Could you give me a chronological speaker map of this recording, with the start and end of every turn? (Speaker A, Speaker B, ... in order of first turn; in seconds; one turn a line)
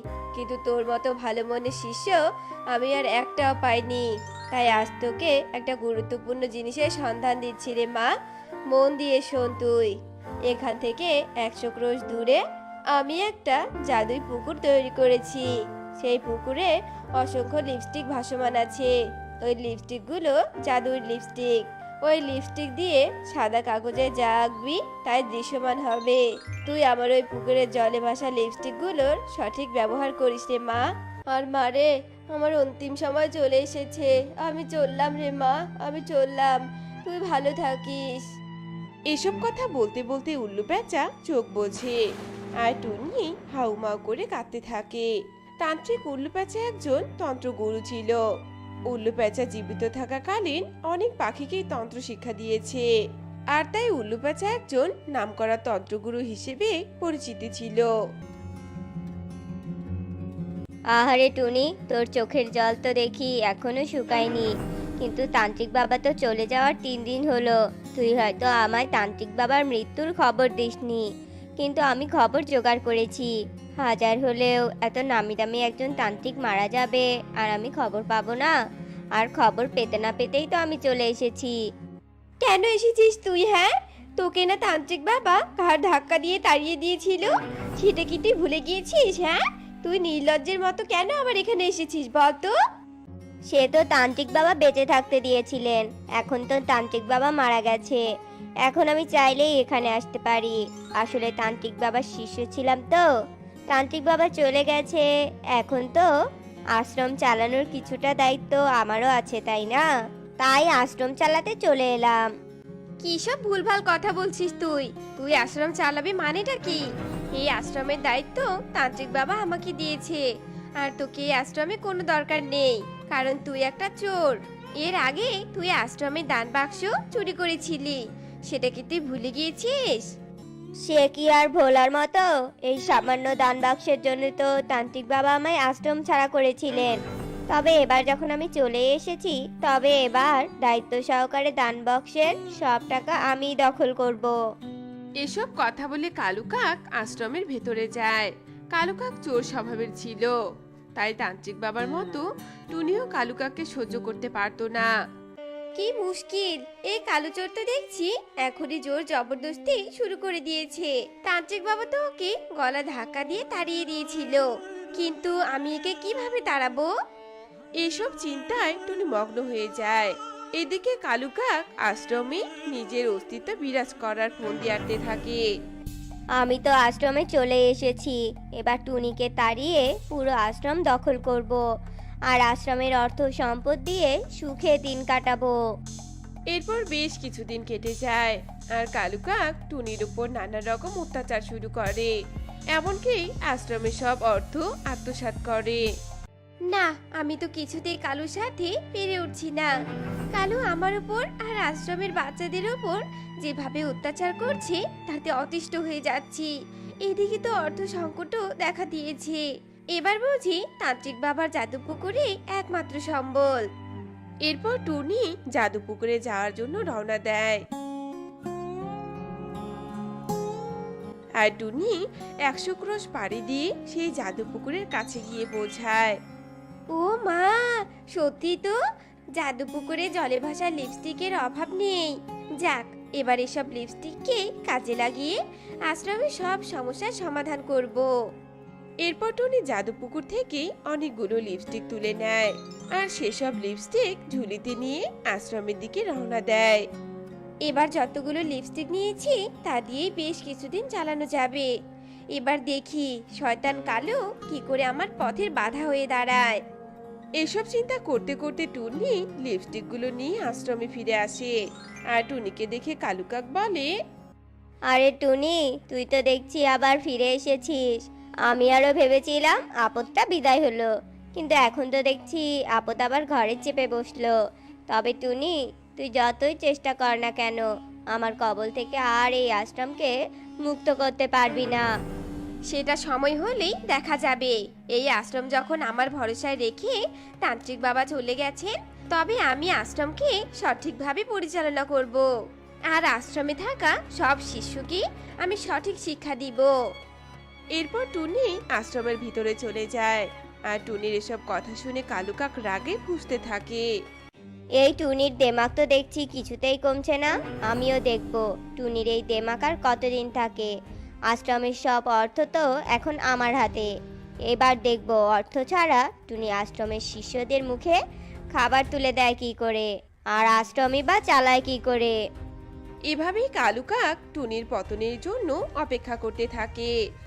Speaker A: 0.3-2.2
Speaker A: 2.7-8.1
Speaker A: 8.7-9.9
Speaker A: 10.5-12.4
Speaker A: 12.9-38.2
Speaker B: 39.1-42.0
Speaker B: 42.6-45.1
Speaker B: 45.6-48.2
Speaker B: 48.9-52.9
Speaker B: 53.5-57.9
Speaker C: 60.9-71.1
Speaker C: 71.6-78.5
Speaker C: 79.2-81.6
Speaker A: 82.4-92.5
Speaker C: 93.5-98.0
Speaker C: 98.6-103.1
Speaker C: 103.7-106.1
Speaker C: 106.8-109.9
Speaker C: 110.4-112.2
Speaker A: 113.0-120.3
Speaker A: 120.8-130.1
Speaker C: 130.9-137.0
Speaker C: 137.5-144.3
Speaker B: 145.2-150.3
Speaker B: 151.0-154.9
Speaker A: 155.8-166.9
Speaker B: 167.8-175.4
Speaker C: 176.4-181.6
Speaker C: 182.3-185.6
Speaker B: 186.5-192.1
Speaker B: 192.8-195.8
Speaker A: 196.7-199.7
Speaker A: 200.3-206.5
Speaker A: 207.0-213.6
Speaker B: 214.5-217.6
Speaker B: 221.4-226.1
Speaker A: 226.9-228.8
Speaker A: 229.4-238.1
Speaker B: 239.1-246.8
Speaker A: 247.7-251.7
Speaker A: 252.3-256.6
Speaker B: 257.4-261.6
Speaker B: 262.1-263.9
Speaker C: 264.9-274.4
Speaker C: 274.9-281.9
Speaker A: 282.7-292.3
Speaker A: 292.9-296.7
Speaker B: 297.7-303.9
Speaker C: 304.8-310.7
Speaker C: 311.3-313.9
Speaker C: 314.5-318.0
Speaker C: 318.5-322.2
Speaker B: 323.1-326.9